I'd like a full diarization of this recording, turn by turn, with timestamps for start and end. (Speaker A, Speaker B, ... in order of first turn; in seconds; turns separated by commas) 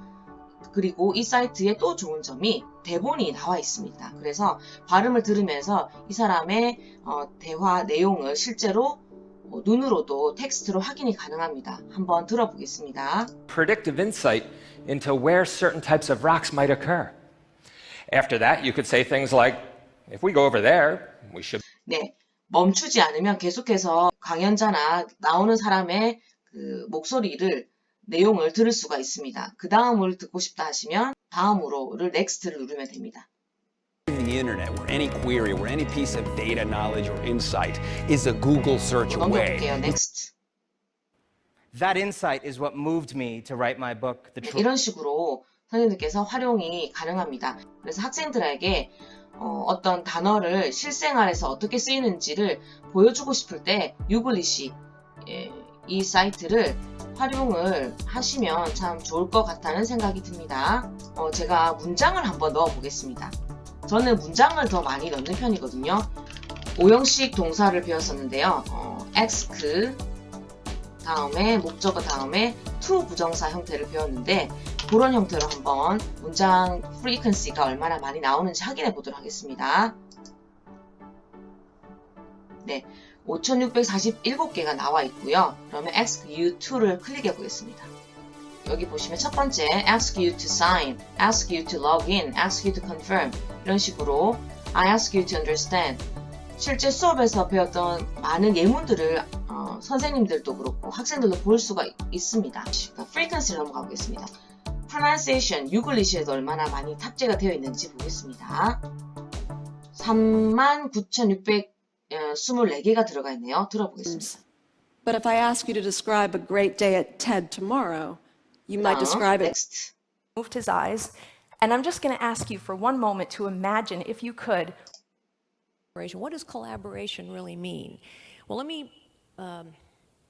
Speaker A: 0.7-13.3, Speaker B: 13.5-17.1, Speaker B: 18.1-21.6, Speaker A: 21.9-33.3, Speaker C: 34.1-39.7, Speaker A: 39.1-40.3, Speaker D: 41.7-44.6, Speaker A: 44.4-63.3, Speaker A: 63.9-66.1, Speaker A: 66.8-70.0, Speaker A: 71.0-80.0, Speaker A: 82.6-87.9, Speaker A: 88.6-96.0, Speaker A: 96.6-104.3, Speaker A: 104.9-108.8, Speaker A: 110.0-114.4, Speaker E: 114.0-114.3, Speaker E: 115.0-119.5, Speaker A: 118.8-119.9, Speaker F: 120.4-124.7, Speaker G: 126.0-129.8